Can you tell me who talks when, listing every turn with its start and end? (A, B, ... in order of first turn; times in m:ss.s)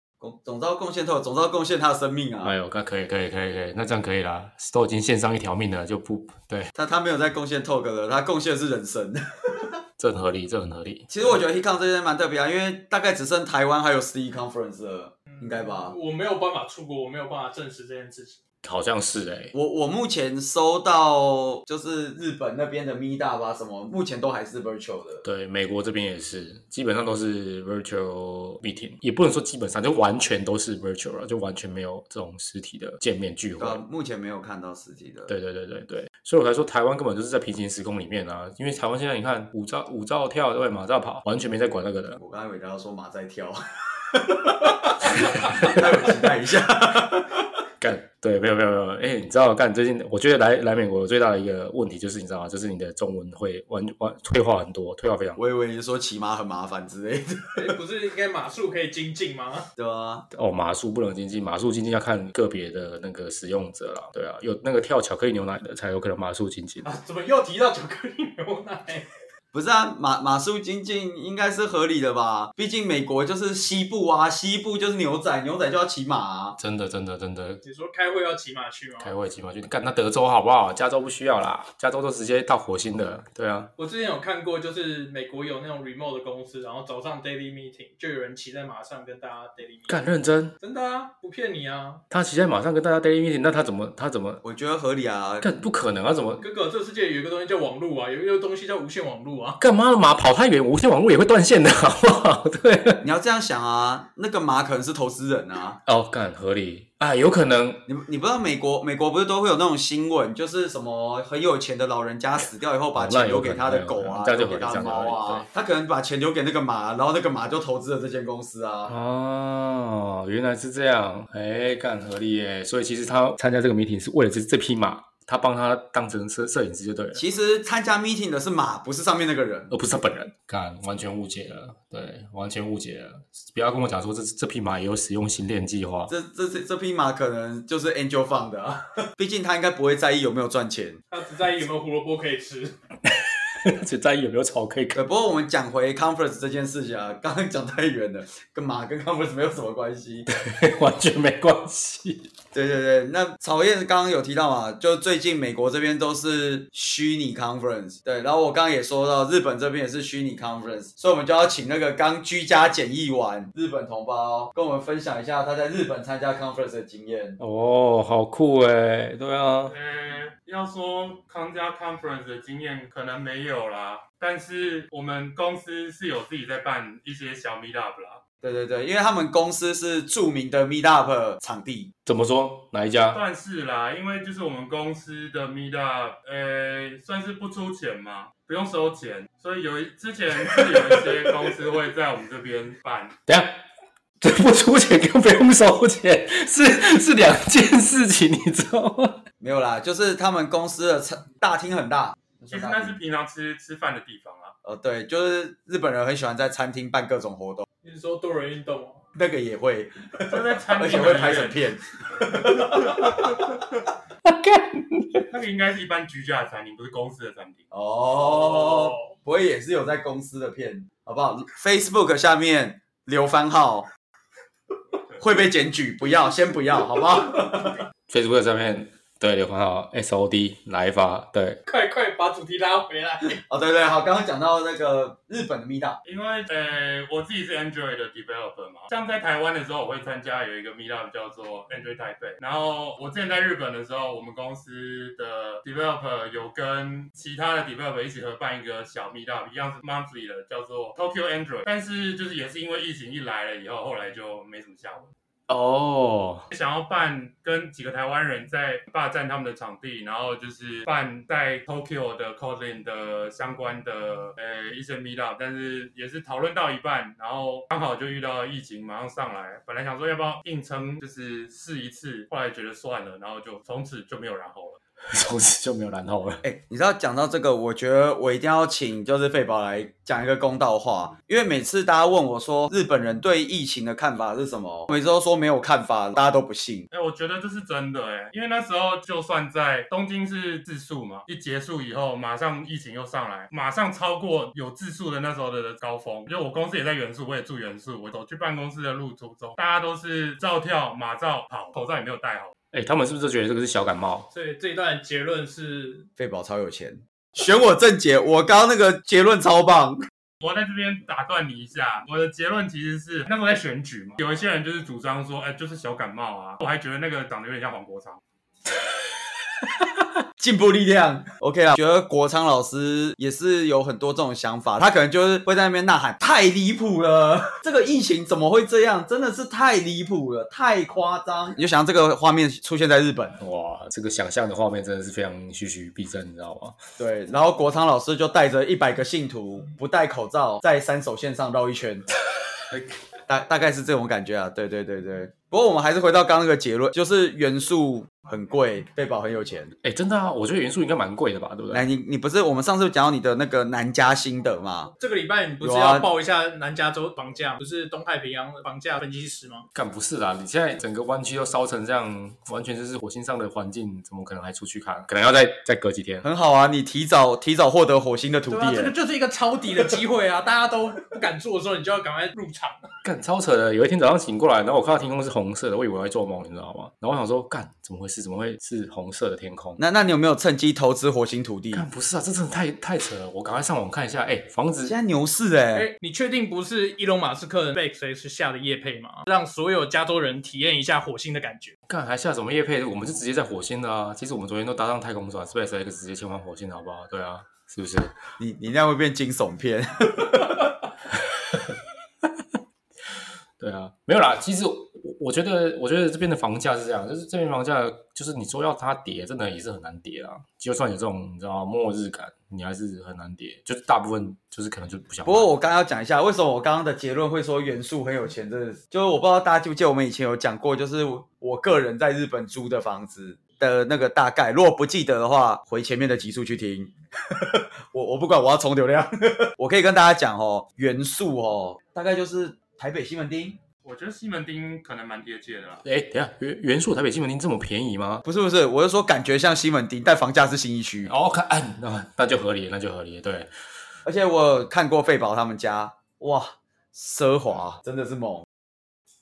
0:00.2-0:02.5 A
0:02.4-0:06.7 B
0:06.8-0:09.8 A
0:10.0-0:11.4 B
0:11.1-0:16.0 A
0:15.3-0:18.4 C
0:18.6-0:19.5 B
0:19.5-0:25.2 A
0:25.2-0:33.8 B
0:33.6-0:35.3 A
0:35.3-0:42.2 B
0:42.2-0:47.5 A
0:45.1-0:45.8 B
0:47.8-0:55.4 B
0:55.4-0:57.8 A
0:57.6-0:59.7 C
0:59.8-1:00.2 A
1:00.3-1:07.0 B
1:06.9-1:09.1 C
1:09.5-1:16.6 A
1:16.6-1:17.6 B
1:17.6-1:19.1 C
1:19.0-1:23.7 B
1:23.8-1:29.9 C
1:29.9-1:30.6 B
1:30.6-1:32.0 C
1:32.1-1:34.4 B
1:34.4-1:35.4 A
1:35.4-1:36.4 B
1:36.4-1:39.6 C
1:39.6-1:43.0 B
1:43.0-1:45.8 A
1:45.9-1:47.8 B
1:47.9-1:58.9 A
1:53.0-1:55.5 B
1:58.9-2:07.2 B
2:07.1-2:09.7 A
2:09.7-2:16.1 B
2:16.1-2:21.0 A
2:21.1-2:22.8 C
2:23.7-2:25.0 B
2:24.9-2:30.3 A
2:30.3-2:32.3 B
2:32.5-2:47.4 A
2:47.4-2:49.7 B
2:49.7-2:58.2 D
2:58.4-3:01.9 A
3:02.1-3:03.2 B
3:03.1-3:13.2 D
3:13.3-3:13.6 B
3:14.2-3:19.2 B
3:19.4-3:23.0 A
3:22.5-3:24.5 D
3:24.6-3:27.7 A
3:27.8-3:29.0 C
3:29.2-3:33.4 A
3:30.3-3:31.6 D
3:34.3-3:35.2 B
3:35.3-3:37.6 D
3:37.7-3:43.9 A
3:38.1-3:39.1 C
3:45.2-3:47.8 A
3:48.1-3:51.6 B
3:51.7-3:53.4 C
3:53.4-3:56.0 A
3:56.0-4:15.1 D
4:15.5-4:16.4 B
4:16.5-4:34.8 D
4:35.1-4:36.4 B
4:36.4-4:46.9 A
4:46.9-5:02.5 D
5:02.7-5:04.3 B
5:04.3-5:06.1 C
5:06.2-5:10.0 A
5:10.4-5:18.2 D
5:20.4-5:33.4 A
5:33.4-5:36.8 B
5:37.0-5:42.0 A
5:43.3-5:49.7 A
5:49.8-5:51.9 B
5:51.7-5:54.9 A
5:55.0-5:59.6 C
5:55.6-5:56.1 A
5:59.7-6:06.2 B
6:06.2-6:08.9 A
6:08.5-6:12.9 C
6:13.0-6:19.8 B
6:19.8-6:21.9 A
6:21.7-6:24.9 B
6:24.8-6:25.9 A
6:25.7-6:31.7 C
6:31.9-6:38.1 B
6:38.4-6:40.6 A
6:43.6-6:55.5 B
6:55.2-7:13.6 A
7:13.8-7:15.8 D
7:15.8-7:18.2 B
7:18.2-7:21.1 A
7:21.1-7:23.5 B
7:24.0-7:28.4 A